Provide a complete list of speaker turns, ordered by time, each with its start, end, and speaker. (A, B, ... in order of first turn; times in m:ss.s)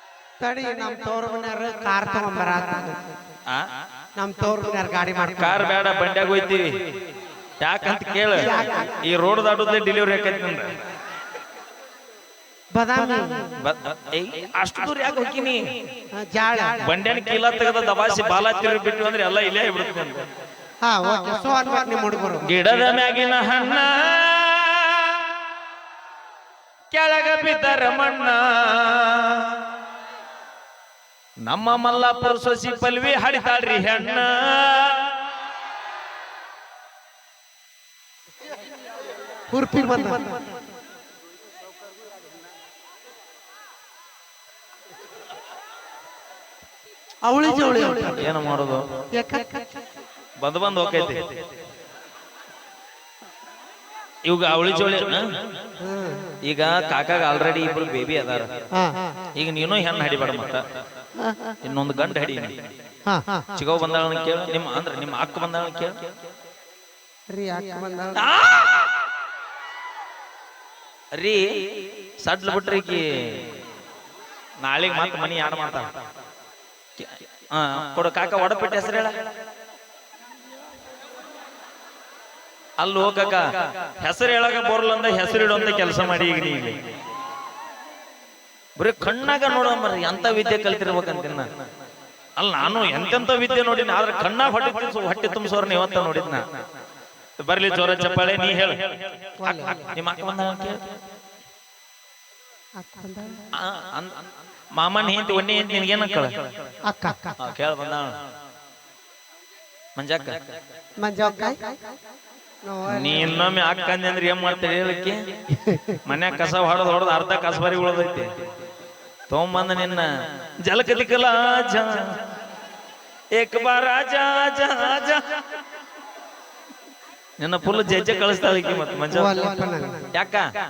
0:00.4-0:03.2 A
0:04.2-0:05.7 A
0:05.4-0:06.7 B
0:07.6-0:10.7 B
0:08.3-0:09.0 A
0:12.7-0:13.6 A
0:13.6-0:15.7 B
0:16.1-0:16.9 A
0:16.8-0:20.2 B
0:20.8-0:22.4 A
0:22.4-0:25.3 B
0:26.9-0:29.6 B
0:31.4-0:35.2 B
0:39.5-0:40.4 A
0:47.2-0:48.4 A
0:48.0-0:49.0 B
0:49.1-0:49.6 A
0:50.4-0:51.2 B
0:54.2-0:55.2 B
0:55.8-0:56.3 A
0:56.4-0:58.5 B
0:58.7-0:59.3 A
0:59.4-1:00.6 B
1:01.2-1:01.6 A
1:01.6-1:02.6 B
1:03.0-1:03.5 A
1:03.5-1:06.0 B
1:07.3-1:08.3 A
1:08.2-1:08.9 B
1:11.1-1:11.4 B
1:12.2-1:13.4 B
1:14.6-1:15.9 B
1:17.0-1:19.1 B
1:22.8-1:26.8 B
1:28.8-1:31.5 B
1:32.4-1:36.4 B
1:37.4-1:38.8 B
1:39.4-1:39.9 A
1:39.4-1:40.8 B
1:42.8-1:43.5 A
1:43.5-1:44.1 B
1:44.7-1:46.3 B
1:46.8-1:47.4 A
1:47.4-1:48.2 B
1:50.0-1:50.4 B
1:51.0-1:51.8 A
1:52.6-1:53.5 A
1:52.9-1:55.2 B
1:55.5-1:56.0 A
1:56.0-1:58.3 B
1:59.3-2:00.1 B
2:00.6-2:02.2 B
2:03.3-2:05.2 B
2:07.4-2:10.5 B
2:09.1-2:10.1 A